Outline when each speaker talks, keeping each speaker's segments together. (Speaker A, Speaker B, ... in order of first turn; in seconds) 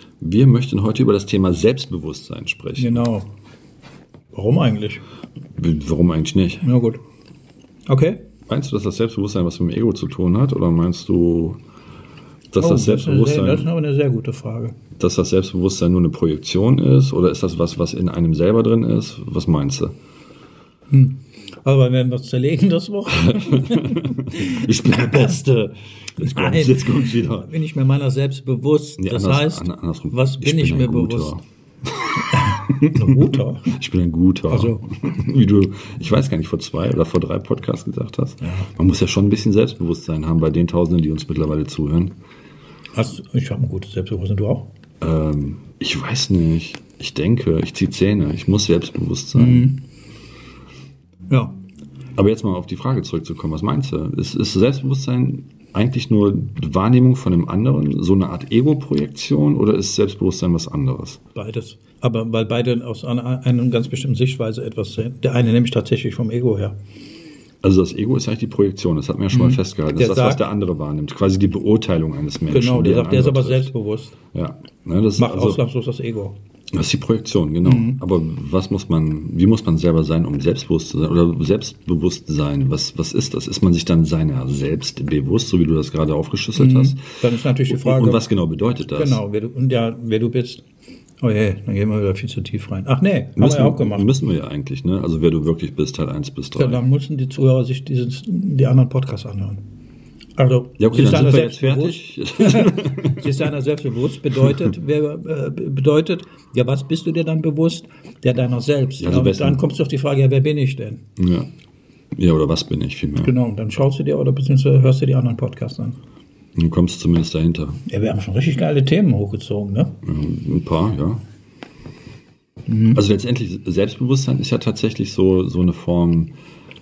Speaker A: 0.2-3.1, 5.6-6.7, 8.5-11.6, 12.5-13.7, 15.0-19.9, 23.2-27.5, 29.0-42.1, 45.0-49.8, 52.2-61.2, 67.6-73.7, 74.3-75.6, 76.7-89.2, 93.4-96.8, 100.8-103.3, 109.0-109.6, 111.2-111.5, 112.2-113.3, 116.5-117.8, 120.0-121.2, 122.9-126.3
Speaker B: 2.8-3.3, 4.3-5.0, 6.6-7.0, 7.9-8.2, 12.6-14.7, 20.9-25.3, 26.2-31.4, 32.3-33.8, 34.5-34.8, 38.4-38.7, 42.9-44.7, 49.4-49.8, 51.3-51.5, 61.4-66.8, 69.3-70.5, 72.5-74.2, 75.2-76.4, 77.6-78.0, 86.6-88.2, 88.8-90.6, 91.2-94.1, 96.6-99.6, 100.4-111.0, 113.2-116.0, 117.9-120.0, 122.7-123.0